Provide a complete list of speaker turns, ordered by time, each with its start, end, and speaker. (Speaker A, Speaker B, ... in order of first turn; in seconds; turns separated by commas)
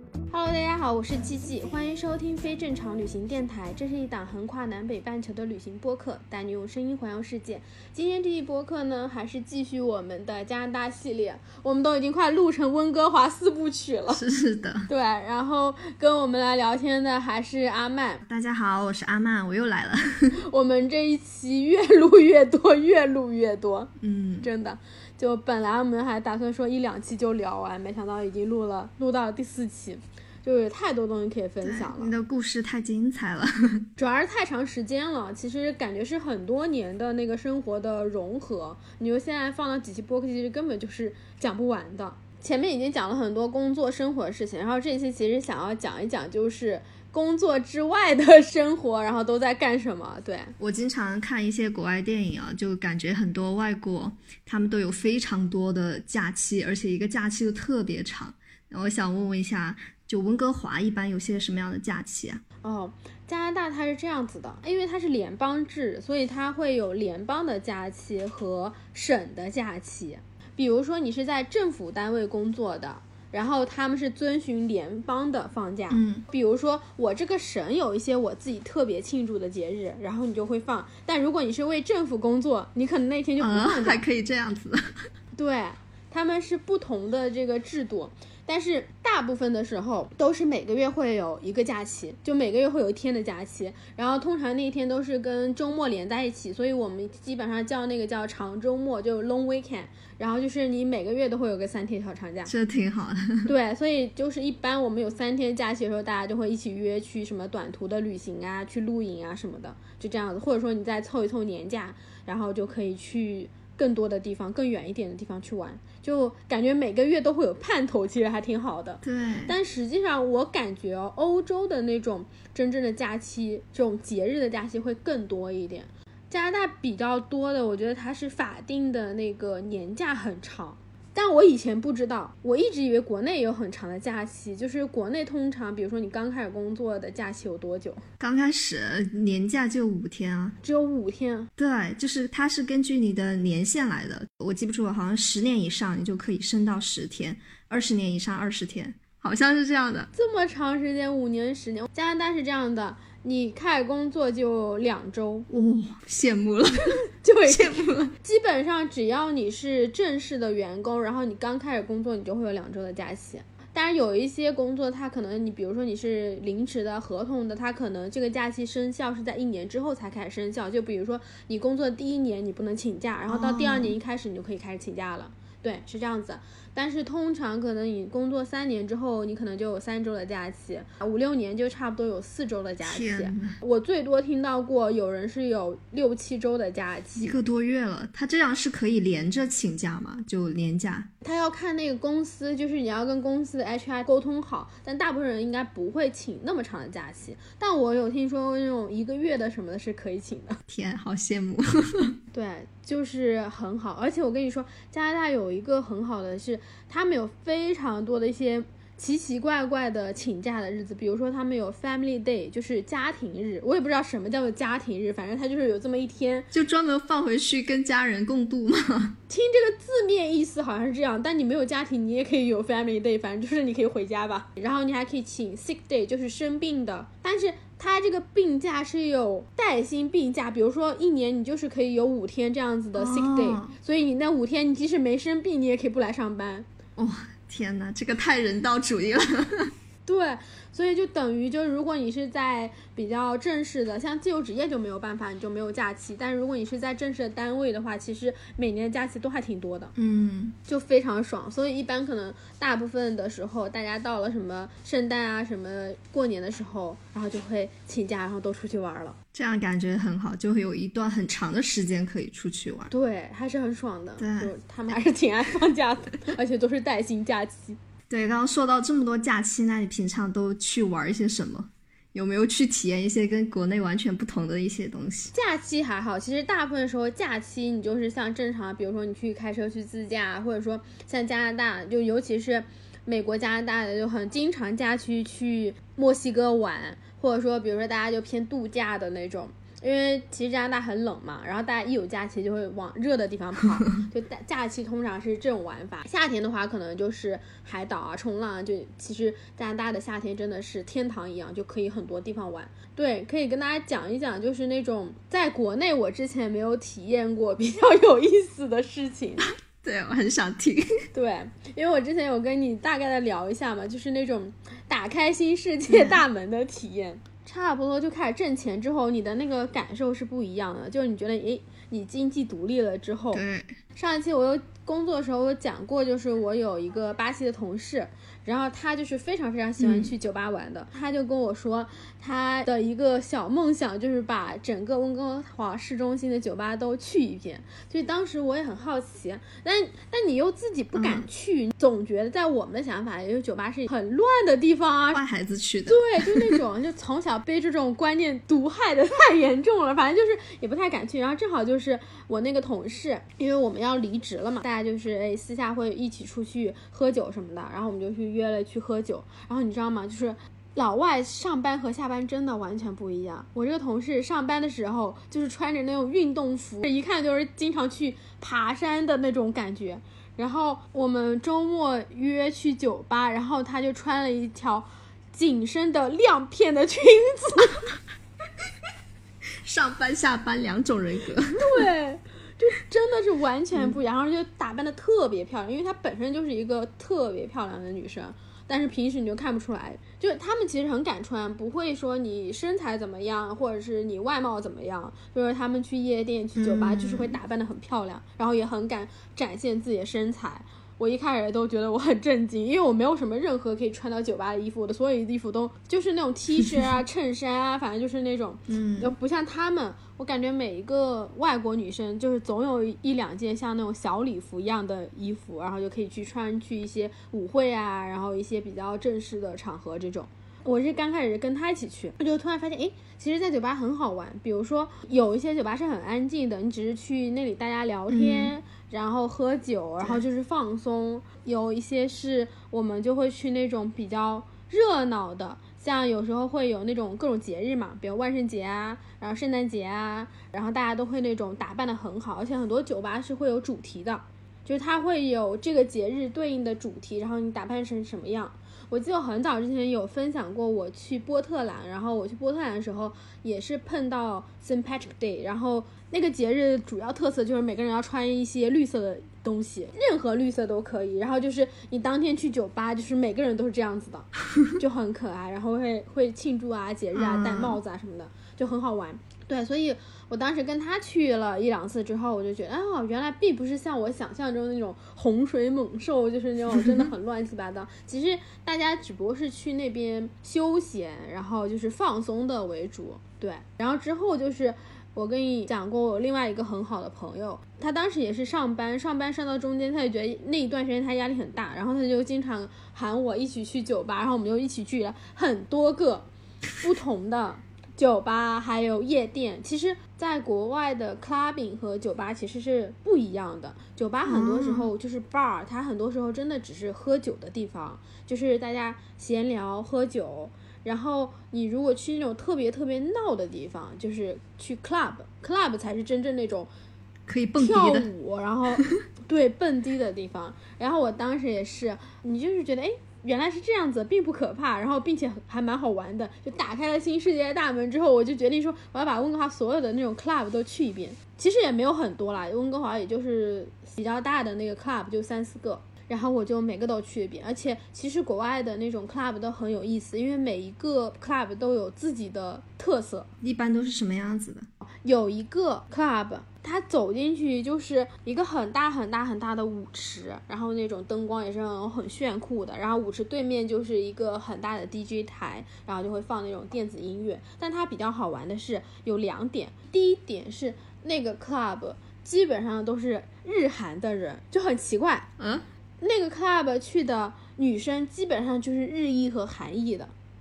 Speaker A: 0.3-14.2, Speaker B: 14.1-14.9, Speaker A: 14.9-18.2, Speaker B: 18.2-20.4, Speaker A: 20.4-32.1, Speaker B: 24.0-24.5, Speaker B: 31.6-33.9, Speaker A: 34.0-50.5, Speaker B: 50.6-62.4, Speaker A: 62.6-84.0, Speaker B: 75.9-76.2, Speaker B: 83.4-84.9, Speaker A: 85.3-102.5, Speaker B: 102.5-103.5, Speaker A: 103.5-138.0, Speaker B: 119.0-119.5, Speaker B: 138.2-140.6, Speaker A: 140.6-141.5, Speaker B: 141.6-150.1, Speaker A: 150.1-155.5, Speaker B: 155.5-158.1, Speaker A: 157.1-187.3, Speaker B: 173.3-173.9, Speaker B: 182.8-183.6, Speaker B: 187.2-191.1, Speaker A: 191.2-200.6, Speaker B: 200.7-202.2, Speaker A: 202.3-216.5, Speaker B: 216.5-219.2, Speaker A: 219.3-236.7, Speaker B: 232.9-233.8, Speaker B: 237.0-239.7, Speaker A: 240.1-249.9, Speaker B: 249.9-250.6, Speaker A: 250.7-259.2, Speaker B: 259.3-262.9, Speaker A: 262.9-267.8, Speaker B: 264.2-264.5, Speaker B: 268.1-275.3, Speaker A: 275.3-309.5, Speaker B: 309.4-311.0, Speaker A: 311.1-323.4, Speaker B: 315.9-316.2, Speaker B: 323.3-323.8, Speaker A: 323.9-345.2, Speaker B: 329.8-330.1, Speaker B: 340.9-341.2, Speaker B: 345.1-346.6, Speaker A: 345.9-377.9, Speaker B: 379.6-381.8, Speaker A: 381.6-496.3, Speaker B: 396.6-397.4, Speaker B: 406.6-406.9, Speaker B: 408.7-409.1, Speaker B: 428.1-428.5, Speaker B: 467.1-467.8, Speaker A: 496.8-516.7, Speaker B: 504.2-504.9, Speaker B: 517.3-518.1, Speaker A: 517.6-543.3, Speaker B: 543.4-544.7, Speaker A: 545.0-565.3, Speaker B: 565.4-565.6, Speaker A: 566.0-570.1